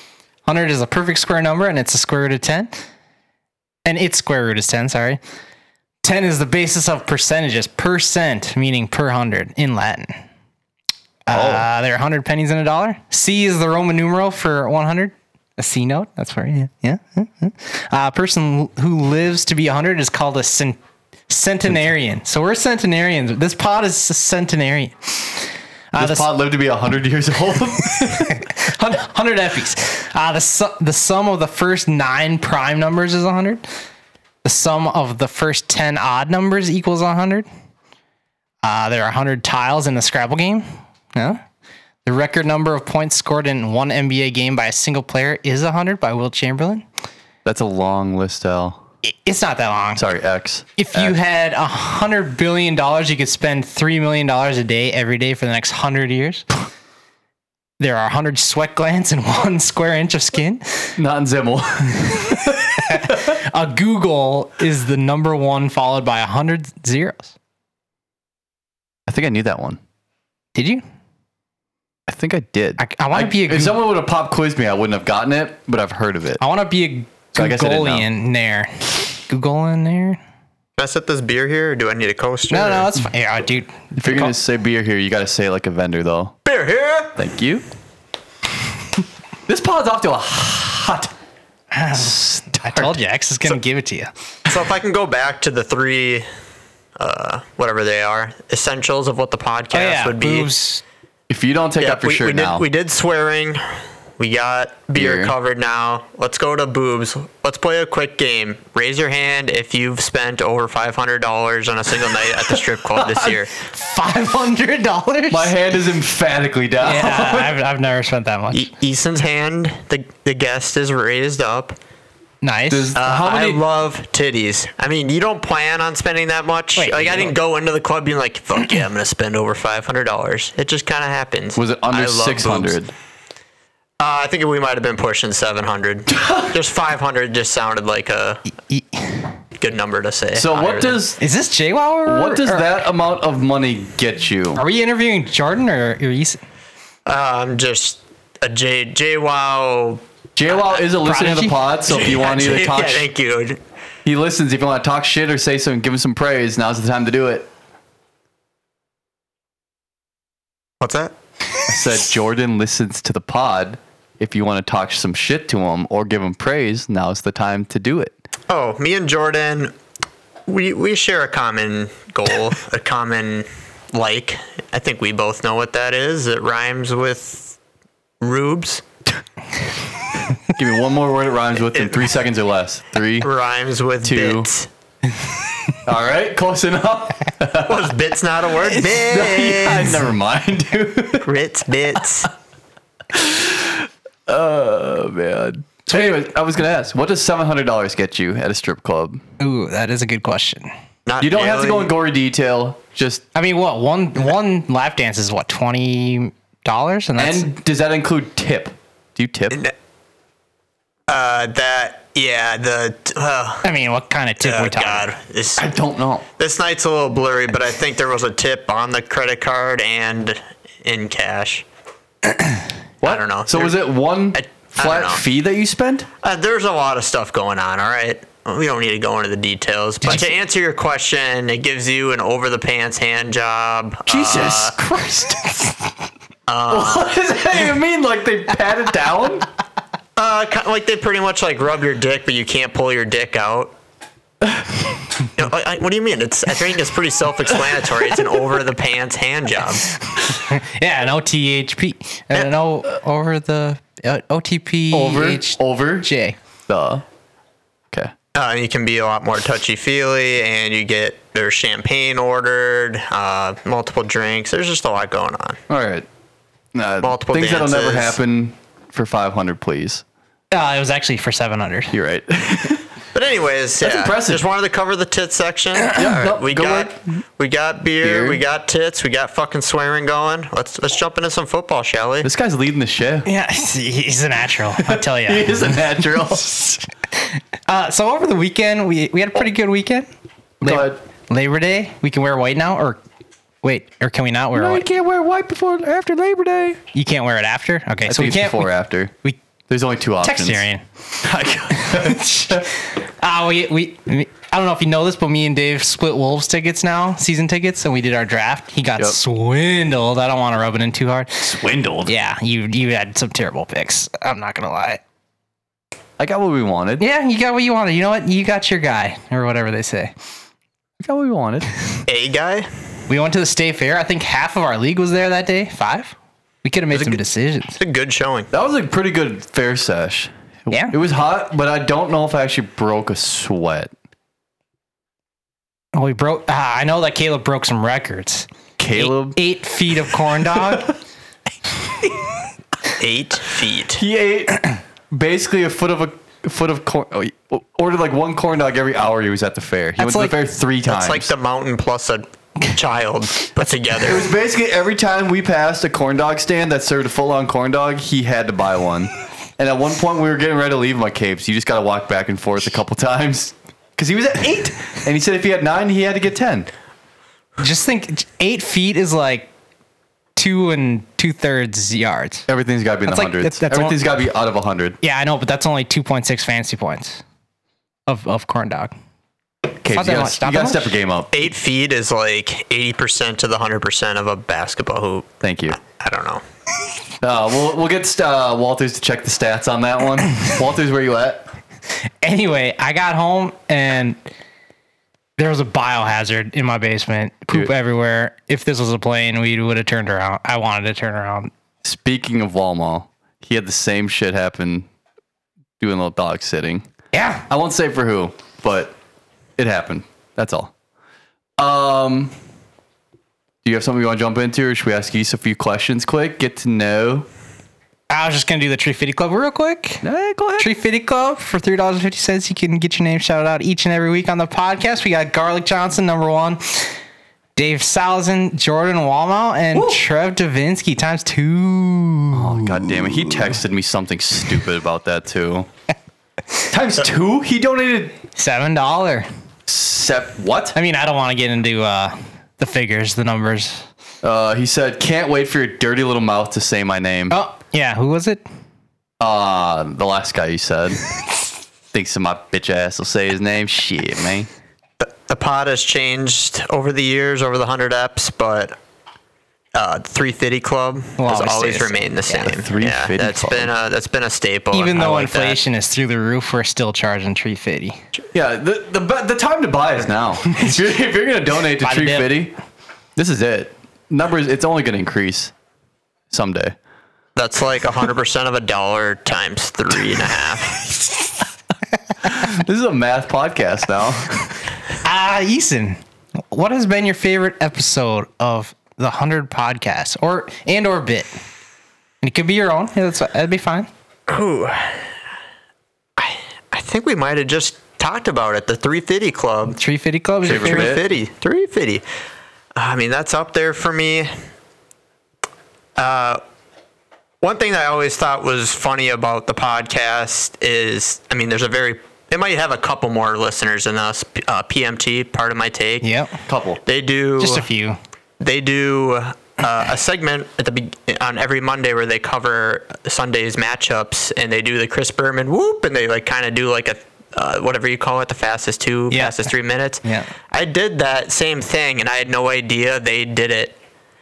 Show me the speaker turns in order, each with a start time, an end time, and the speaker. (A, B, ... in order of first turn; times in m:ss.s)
0:00.4-0:02.8 A
0:03.8-0:05.2 A
0:06.0-0:10.2 A
0:11.3-0:20.8 A
0:11.3-0:11.7 B
0:21.3-0:26.3 A
0:26.0-0:28.4 B
0:28.0-0:33.6 A
0:34.4-0:37.5 A
0:38.6-0:40.6 A
0:41.1-0:41.4 A
0:42.0-0:46.8 A
0:47.4-0:48.8 B
0:49.0-0:50.0 A
0:49.9-0:51.2 B
0:50.8-0:56.4 A
0:57.8-1:00.9 A
1:01.0-1:03.3 B
1:02.8-1:07.3 A
1:09.1-1:09.8 B
1:10.5-1:10.8 A
1:12.1-1:16.4 B
1:12.8-1:13.8 A
1:16.4-1:20.2 A
1:17.3-1:18.1 B
1:20.8-1:22.9 C
1:22.5-1:24.3 A
1:24.0-1:26.3 B
1:26.4-1:27.2 C
1:27.2-1:27.6 B
1:29.5-1:31.1 B
1:31.7-1:34.1 A
1:31.9-1:33.0 B
1:34.4-1:36.2 C
1:37.0-1:40.5 C
1:39.7-1:40.8 A
1:41.3-1:42.6 B
1:41.8-1:43.6 C
1:44.2-1:53.5 C
1:44.9-1:45.3 B
1:52.9-1:53.4 B
1:53.6-1:55.5 A
1:55.3-1:57.6 B
1:56.8-1:58.7 A
1:58.5-2:01.8 C
2:02.4-2:02.9 A
2:02.7-2:03.6 B
2:02.9-2:12.8 C
2:06.8-2:07.3 A
2:11.6-2:12.9 B
2:14.0-2:18.4 C
2:16.1-2:16.5 B
2:18.7-2:19.1 A
2:19.6-2:21.1 C
2:20.3-2:21.2 B
2:21.2-2:22.7 A
2:22.0-2:24.6 B
2:24.6-2:26.4 A
2:27.0-2:30.0 C
2:30.4-2:33.1 B
2:30.8-2:31.7 A
2:31.9-2:33.6 C
2:34.0-2:37.5 B
2:40.8-2:41.1 C
2:41.7-2:48.1 B
2:48.5-2:49.7 C
2:50.5-2:57.6 C
2:58.2-2:58.8 C
3:00.5-3:03.3 B
3:01.7-3:02.1 C
3:03.2-3:04.7 C
3:04.0-3:04.5 B
3:05.8-3:07.9 B
3:07.6-3:10.0 C
3:08.8-3:11.3 B
3:11.2-3:12.3 C
3:13.1-3:19.2 B
3:19.4-3:20.7 A
3:21.0-3:21.9 C
3:21.2-3:23.2 B
3:23.3-3:27.5 A
3:27.2-3:29.6 B
3:31.1-3:33.6 C
3:33.6-3:35.1 A
3:34.4-3:35.6 C
3:35.6-3:36.2 B
3:36.4-3:41.6 C
3:43.0-3:46.1 B
3:43.0-3:45.2 C
3:46.2-3:54.7 C
3:54.1-3:55.7 B
3:56.5-3:57.2 C
3:56.7-3:59.5 B
4:00.2-4:03.7 C
4:04.4-4:04.7 B
4:05.4-4:09.9 C
4:10.2-4:16.4 A
4:14.9-4:16.1 B
4:16.7-4:17.0 B
4:18.3-4:25.6 C
4:25.7-4:26.1 B
4:26.7-4:30.0 B
4:27.0-4:28.2 C
4:30.5-4:31.9 A
4:31.9-4:32.8 B
4:33.1-4:42.3 C
4:33.8-4:34.4 B
4:35.9-4:37.0 B
4:38.0-4:38.4 B
4:42.2-4:43.3 B
4:43.2-4:45.8 A
4:44.8-4:46.6 B
4:46.4-4:46.8 A
4:47.7-4:50.1 A
4:50.6-4:51.0 B
4:50.6-4:53.0 A
4:53.6-4:54.8 A
4:54.5-4:56.8 B
4:56.9-4:58.7 A
4:58.0-4:59.1 B
4:59.7-5:00.6 B
5:00.2-5:00.8 A
5:01.2-5:02.7 B
5:01.8-5:11.4 A
5:11.4-5:12.1 B
5:12.0-5:15.0 A
5:16.2-5:17.0 B
5:17.0-5:20.1 A
5:21.0-5:21.7 B
5:22.0-5:22.7 C
5:23.1-5:27.8 A
5:26.9-5:27.2 C
5:27.8-5:28.5 C
5:28.5-5:33.9 B
5:35.9-5:40.9 A
5:38.8-5:39.4 B
5:40.5-5:40.9 B
5:43.0-5:44.0 C
5:44.0-5:51.3 B
5:50.0-5:50.3 A
5:50.9-5:54.2 C
5:54.0-6:06.7 B
6:07.6-6:09.5 A
6:10.4-6:12.4 A
6:12.5-6:15.0 B
6:13.0-6:14.0 A
6:15.0-6:17.2 A
6:18.1-6:18.9 A
6:19.8-6:21.3 B
6:19.9-6:20.9 A
6:21.3-6:26.4 C
6:25.4-6:25.8 B
6:27.2-6:31.5 B
6:32.2-6:34.2 A
6:35.4-6:41.5 A
6:41.8-6:44.9 B
6:45.8-6:46.9 B
6:47.1-6:47.4 A
6:47.5-6:48.9 B
6:49.6-6:50.7 B
6:51.6-6:52.3 B
6:53.6-6:57.3 B
6:58.1-7:00.1 A
7:00.0-7:00.7 B
7:00.6-7:06.9 A
7:07.6-7:13.4 A
7:09.7-7:10.0 B
7:12.3-7:15.7 B
7:16.7-7:18.2 B
7:18.4-7:19.3 A
7:19.7-7:20.8 B
7:20.7-7:23.9 A
7:24.2-7:27.4 B
7:27.3-7:28.4 A
7:29.2-7:31.1 B
7:31.9-7:34.5 B
7:35.0-7:38.7 C
7:39.7-7:45.6 C
7:41.2-7:42.3 A
7:42.4-7:43.7 B
7:44.7-7:48.0 A
7:48.3-7:52.5 B
7:51.8-7:52.4 A
7:53.2-7:55.5 B
7:56.3-7:56.8 B
7:57.4-8:00.8 C
8:02.2-8:04.6 B
8:05.0-8:06.0 A
8:06.5-8:11.3 A
8:12.2-8:13.9 A
8:14.3-8:15.0 C
8:16.2-8:19.8 C
8:19.7-8:21.0 A
8:20.4-8:21.0 B
8:20.4-8:22.0 C
8:22.8-8:24.3 C
8:26.0-8:26.4 C
8:27.4-8:36.1 C
8:36.0-8:36.4 A
8:36.5-8:36.8 B
8:36.8-8:37.6 C
8:37.4-8:38.0 A
8:38.4-8:53.8 C
8:49.1-8:49.5 A
8:50.0-8:50.3 A